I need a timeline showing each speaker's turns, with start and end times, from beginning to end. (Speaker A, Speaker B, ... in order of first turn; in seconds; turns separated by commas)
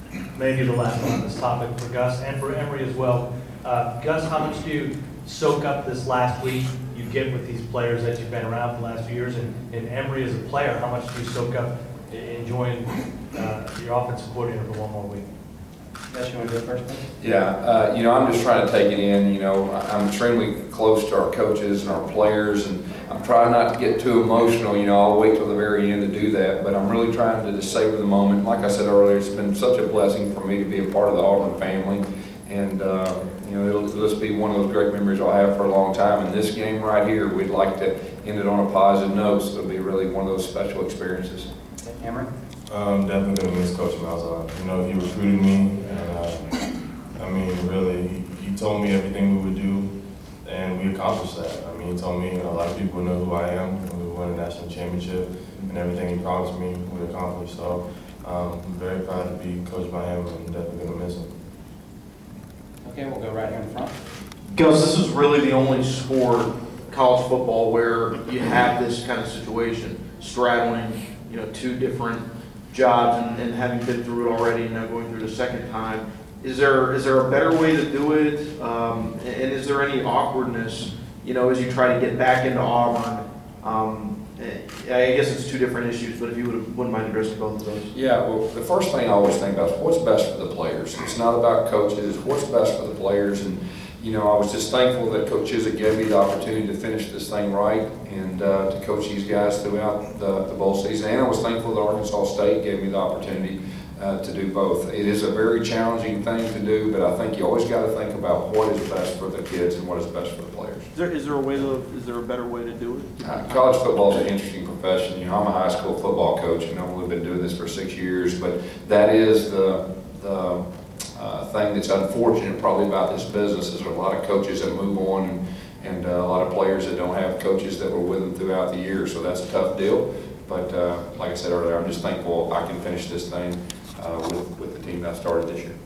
Speaker A: 0.3-15.2, Speaker B: 16.1-17.1, Speaker C: 17.2-41.5, Speaker B: 41.8-42.3, Speaker D: 42.7-61.3, Speaker B: 62.8-63.9, Speaker E: 64.5-87.9, Speaker C: 87.9-110.8, Speaker E: 110.9-113.6, Speaker C: 113.2-120.6, Speaker C: 121.2-135.8